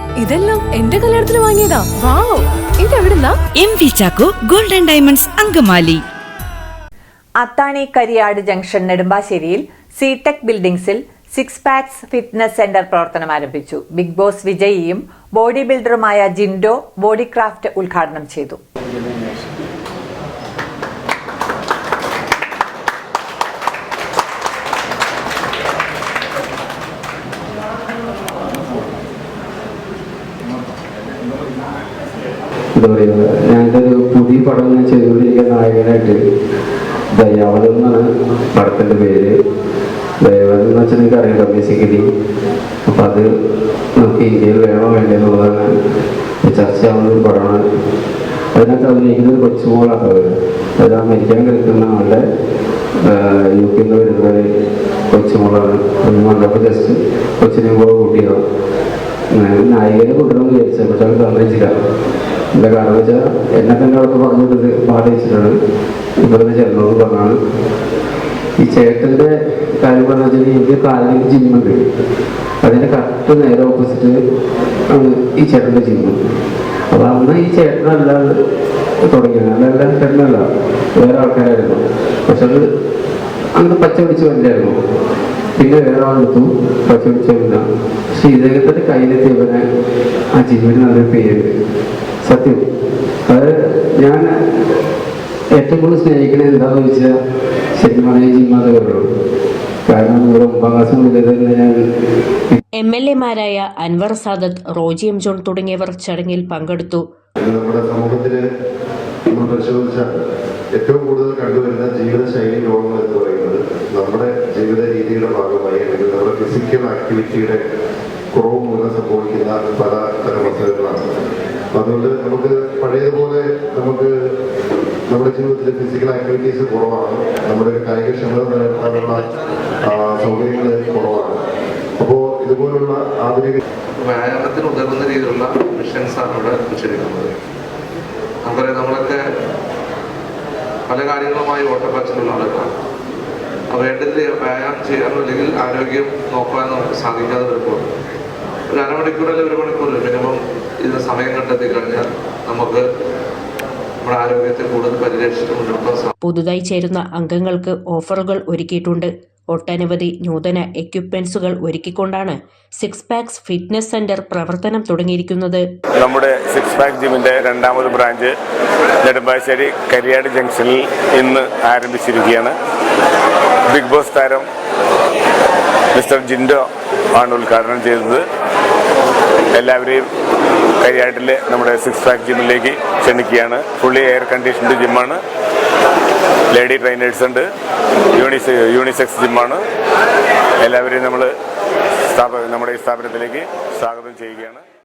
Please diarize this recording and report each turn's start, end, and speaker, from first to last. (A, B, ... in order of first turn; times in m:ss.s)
0:00.2-0:03.4 A
0:03.6-0:06.0 B
0:07.4-0:18.6 C
0:32.8-0:36.2 D
0:37.1-0:39.4 D
0:40.2-0:42.1 D
0:42.9-0:43.3 D
0:44.0-0:45.7 D
0:46.4-0:47.6 D
0:48.5-0:52.2 D
0:53.0-0:54.5 D
0:55.1-0:58.4 D
0:59.3-1:01.7 D
1:02.6-1:05.6 D
1:06.2-1:07.4 D
1:08.6-1:11.8 D
1:12.6-1:14.2 D
1:14.9-1:16.2 D
1:16.9-1:18.3 D
1:19.1-1:20.5 D
1:21.0-1:22.6 D
1:23.6-1:24.8 D
1:25.6-1:29.7 D
1:30.3-1:31.4 D
1:32.2-1:32.6 D
1:33.3-1:34.3 D
1:35.6-1:37.1 D
1:37.8-1:39.0 D
1:39.9-1:41.8 D
1:42.8-1:47.0 E
1:47.4-1:48.4 F
1:49.3-1:50.1 F
1:50.7-1:57.6 F
1:58.3-2:01.1 F
2:01.7-2:04.1 F
2:05.1-2:09.2 F
2:09.9-2:11.4 F
2:12.0-2:13.6 F
2:14.0-2:17.3 G
2:18.4-2:19.2 G
2:20.9-2:22.7 G
2:23.7-2:27.9 G
2:28.7-2:32.8 G
2:34.0-2:36.1 G
2:36.2-2:45.6 E
2:46.0-2:48.3 H
2:49.0-2:52.6 H
2:53.7-2:54.5 H
2:55.9-2:56.6 H
2:57.2-2:58.2 H
2:59.5-3:00.1 H
3:00.8-3:05.2 H
3:06.5-3:07.4 H
3:08.2-3:09.6 H
3:10.6-3:11.3 H
3:12.1-3:14.6 H